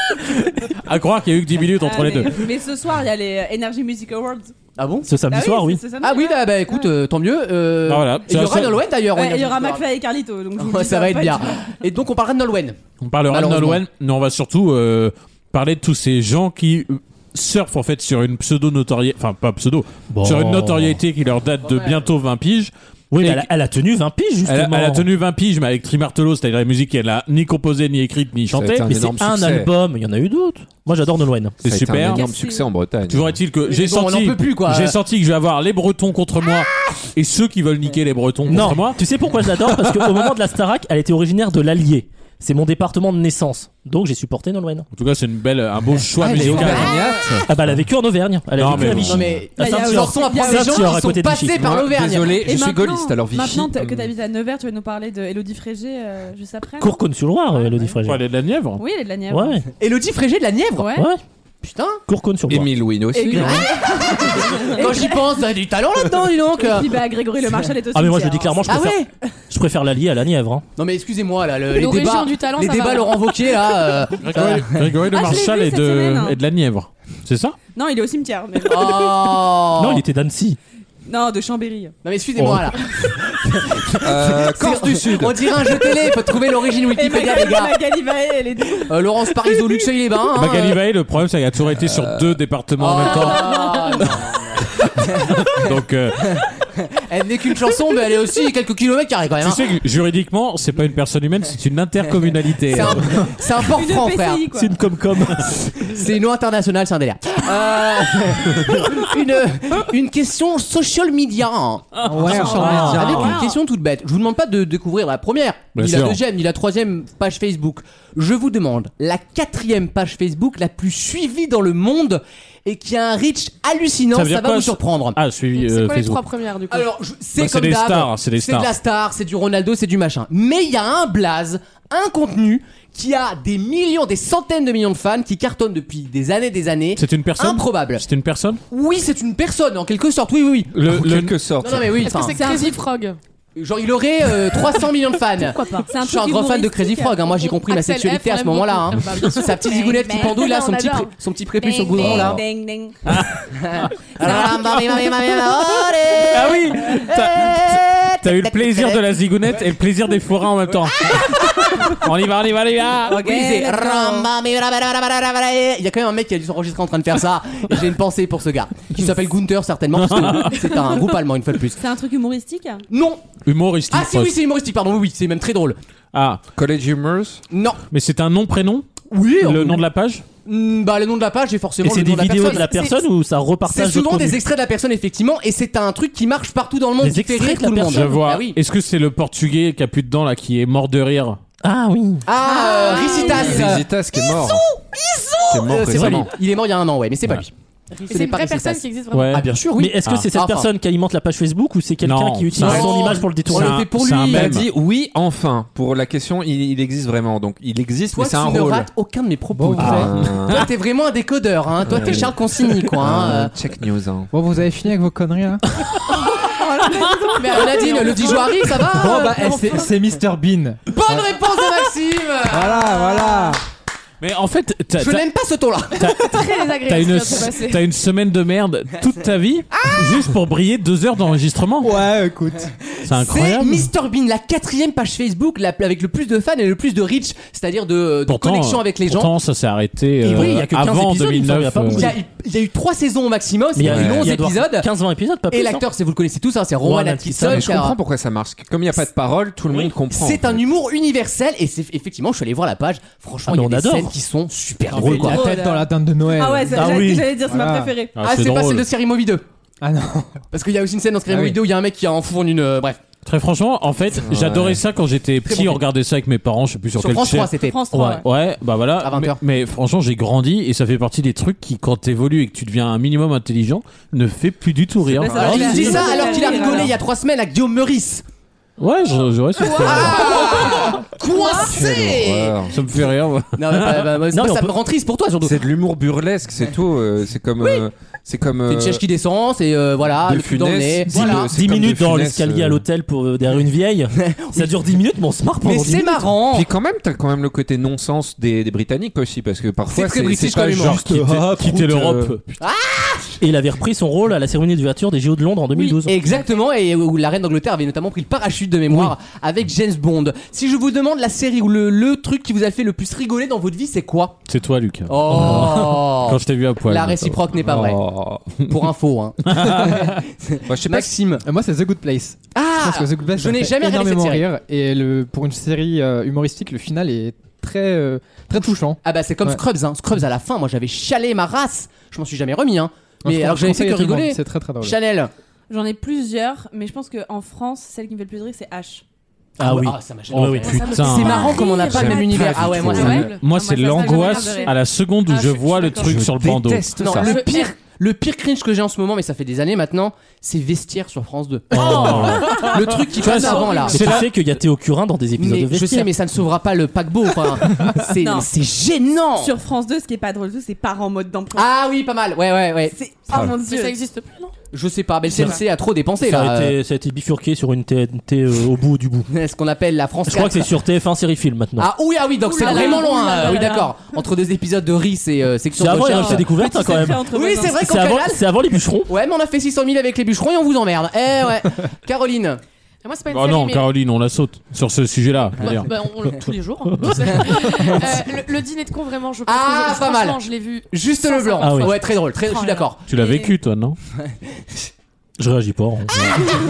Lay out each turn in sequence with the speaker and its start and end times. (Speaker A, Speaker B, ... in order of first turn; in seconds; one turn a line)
Speaker A: 0.2-2.4
Speaker B: 1.8-4.5
Speaker C: 4.8-5.1
Speaker D: 5.0-5.8
Speaker B: 5.3-6.9
Speaker C: 6.0-9.8
Speaker A: 7.8-8.8
Speaker B: 9.1-11.5
Speaker C: 10.6-13.8
Speaker A: 13.0-23.5
Speaker D: 20.1-21.0
Speaker C: 21.6-22.0
Speaker D: 23.1-25.1
Speaker A: 24.5-28.9
Speaker E: 28.5-29.7
Speaker D: 28.9-31.6
Speaker A: 31.6-32.3
Speaker E: 31.6-33.4
Speaker B: 32.0-32.6
Speaker A: 33.1-39.0
Speaker C: 33.6-35.0
Speaker D: 38.5-44.9
Speaker A: 44.9-47.0
Speaker E: 46.2-47.5
Speaker C: 46.4-47.4
Speaker D: 47.5-51.6
Speaker A: 48.6-49.3
Speaker C: 48.7-52.4
Speaker E: 48.8-49.2
Speaker B: 49.6-50.9
Speaker E: 51.6-54.1
Speaker B: 52.4-57.0
Speaker D: 56.8-58.2
Speaker B: 57.5-57.9
Speaker A: 58.0-58.8
Speaker B: 58.8-59.6
Speaker D: 59.3-59.6
Speaker C: 59.8-61.0
Speaker F: 60.8-61.0
Speaker D: 60.9-61.2
Speaker C: 61.6-62.0
Speaker D: 62.1-62.7
Speaker E: 62.5-63.7
Speaker B: 63.1-65.2
Speaker C: 63.3-67.0
Speaker B: 66.6-68.7
Speaker D: 67.9-69.0
Speaker C: 68.7-69.1
Speaker D: 69.5-70.6
Speaker C: 70.8-75.0
Speaker F: 71.7-73.2
Speaker A: 74.2-77.6
Speaker B: 75.1-76.4
Speaker B: 77.7-79.3
Speaker C: 78.6-80.0
Speaker D: 79.8-80.6
Speaker B: 81.0-81.9
Speaker C: 82.0-87.7
Speaker D: 82.4-82.7
Speaker E: 84.0-85.8
Speaker B: 86.8-89.8
Speaker C: 88.8-90.8
Speaker A: 90.3-93.6
Speaker E: 91.8-92.3
Speaker C: 92.8-95.6
Speaker B: 93.4-93.7
Speaker A: 95.3-96.4
Speaker C: 97.0-99.7
Speaker A: 99.4-103.3
Speaker C: 102.7-104.4
Speaker B: 103.7-104.7
Speaker D: 104.5-105.6
Speaker C: 105.5-125.2
Speaker A: 112.0-113.3
Speaker G: 112.0-113.4
Speaker B: 112.3-113.6
Speaker A: 115.7-116.2
Speaker A: 124.1-126.2
Speaker F: 125.5-126.9
Speaker C: 126.7-138.0
Speaker A: 127.4-128.7
Speaker A: 136.9-138.6
Speaker C: 138.7-140.7
Speaker A: 140.7-141.3
Speaker E: 140.8-142.0
Speaker C: 141.6-142.6
Speaker F: 142.0-143.2
Speaker B: 142.3-142.8
Speaker C: 143.6-152.4
Speaker B: 145.5-147.2
Speaker F: 145.5-145.9
Speaker F: 147.4-151.1
Speaker B: 149.5-150.6
Speaker B: 151.6-153.0
Speaker E: 151.9-152.4
Speaker A: 153.0-153.5
Speaker C: 153.5-159.1
Speaker A: 154.2-155.5
Speaker A: 156.3-163.2
Speaker C: 160.9-162.0
Speaker C: 163.0-171.8
Speaker B: 163.1-164.3
Speaker A: 169.9-170.8
Speaker B: 171.8-172.8
Speaker C: 172.9-173.3
Speaker A: 173.4-174.3
Speaker C: 173.9-175.8
Speaker A: 176.1-176.4
Speaker E: 176.5-177.4
Speaker C: 177.5-177.8
Speaker A: 177.9-178.8
Speaker C: 179.1-179.8
Speaker A: 179.4-180.2
Speaker C: 180.4-183.0
Speaker D: 181.8-184.4
Speaker C: 183.7-188.6
Speaker D: 187.0-188.1
Speaker A: 187.8-191.4
Speaker D: 191.6-192.3
Speaker C: 192.3-197.5
Speaker B: 192.4-193.7
Speaker F: 192.5-193.5
Speaker E: 193.3-194.6
Speaker E: 195.5-196.3
Speaker D: 195.9-196.2
Speaker F: 197.9-199.4
Speaker C: 198.1-200.7
Speaker A: 199.1-199.4
Speaker D: 199.8-203.8
Speaker A: 202.0-204.6
Speaker C: 202.6-204.6
Speaker E: 204.3-208.9
Speaker C: 208.1-213.5
Speaker G: 209.5-210.1
Speaker E: 209.8-210.7
Speaker A: 210.0-210.4
Speaker A: 212.0-212.2
Speaker E: 213.0-214.3
Speaker G: 214.3-215.6
Speaker F: 216.4-219.9
Speaker C: 217.3-219.9
Speaker G: 218.9-221.2
Speaker C: 220.9-223.5
Speaker G: 222.5-223.6
Speaker A: 224.2-225.2
Speaker C: 225.0-226.6
Speaker A: 226.0-231.9
Speaker F: 226.0-227.8
Speaker C: 229.7-230.3
Speaker G: 231.8-232.7
Speaker C: 232.7-239.3
Speaker A: 233.1-233.9
Speaker A: 238.3-242.1
Speaker D: 240.2-242.1
Speaker C: 240.2-240.7
Speaker C: 241.9-244.9
Speaker D: 243.7-245.8
Speaker E: 243.8-244.3
Speaker C: 245.5-247.9
Speaker D: 246.8-247.7
Speaker E: 247.4-250.6
Speaker C: 250.1-255.5
Speaker D: 253.5-254.1
Speaker G: 254.9-257.9
Speaker D: 255.0-255.3
Speaker B: 255.2-258.1
Speaker D: 256.7-257.3
Speaker A: 258.1-258.9
Speaker C: 258.2-259.4
Speaker G: 259.8-260.4
Speaker C: 260.5-263.0
Speaker G: 261.3-261.6
Speaker A: 263.2-276.0
Speaker E: 264.2-264.8
Speaker C: 265.5-265.8
Speaker C: 266.9-267.8
Speaker B: 267.6-268.2
Speaker C: 269.0-269.4
Speaker E: 275.1-275.4
Speaker B: 275.2-276.9
Speaker C: 275.2-278.2
Speaker D: 275.2-276.3
Speaker F: 276.1-276.6
Speaker A: 278.8-280.9
Speaker C: 279.6-282.6
Speaker E: 281.7-282.8
Speaker A: 281.8-282.1
Speaker A: 282.7-284.1
Speaker C: 283.6-285.6
Speaker D: 284.3-284.7
Speaker E: 285.4-289.0
Speaker C: 288.7-291.5
Speaker E: 290.2-292.8
Speaker D: 291.1-296.3
Speaker C: 294.2-294.7
Speaker C: 295.6-296.7
Speaker E: 296.5-302.3
Speaker C: 299.9-301.2
Speaker A: 300.8-302.6
Speaker C: 302.6-303.4
Speaker D: 303.4-306.1
Speaker C: 305.7-314.4
Speaker A: 314.5-317.4
Speaker C: 315.1-318.0
Speaker E: 317.6-318.5
Speaker C: 318.7-321.4
Speaker A: 319.4-320.0
Speaker E: 320.6-321.1
Speaker G: 321.4-329.6
Speaker C: 322.5-324.4
Speaker C: 329.0-335.3
Speaker G: 333.2-335.0
Speaker B: 335.7-339.0
Speaker D: 339.6-340.8
Speaker C: 339.6-343.4
Speaker A: 340.4-341.7
Speaker F: 340.6-346.1
Speaker E: 341.3-343.3
Speaker A: 342.7-347.0
Speaker B: 342.9-344.7
Speaker B: 345.3-346.1
Speaker E: 346.0-347.4
Speaker C: 347.0-354.0
Speaker F: 347.2-347.7
Speaker A: 351.7-354.3
Speaker D: 351.8-352.3
Speaker B: 352.1-353.9
Speaker D: 353.9-356.1
Speaker C: 355.4-359.5
Speaker B: 358.2-358.5
Speaker B: 359.4-361.7
Speaker C: 361.6-362.9
Speaker B: 362.9-364.0
Speaker F: 363.3-364.5
Speaker C: 364.7-366.7
Speaker F: 365.3-365.6
Speaker D: 366.2-369.3
Speaker C: 369.3-370.7
Speaker D: 370.3-371.9
Speaker C: 371.8-378.4
Speaker B: 372.4-373.9
Speaker F: 372.6-373.8
Speaker D: 375.8-379.1
Speaker B: 376.0-377.8
Speaker C: 379.1-382.6
Speaker F: 383.0-383.9
Speaker A: 383.3-385.9
Speaker F: 385.6-393.4
Speaker C: 387.3-388.2
Speaker C: 389.4-393.0
Speaker D: 391.6-391.9
Speaker A: 393.1-394.0
Speaker D: 395.4-396.4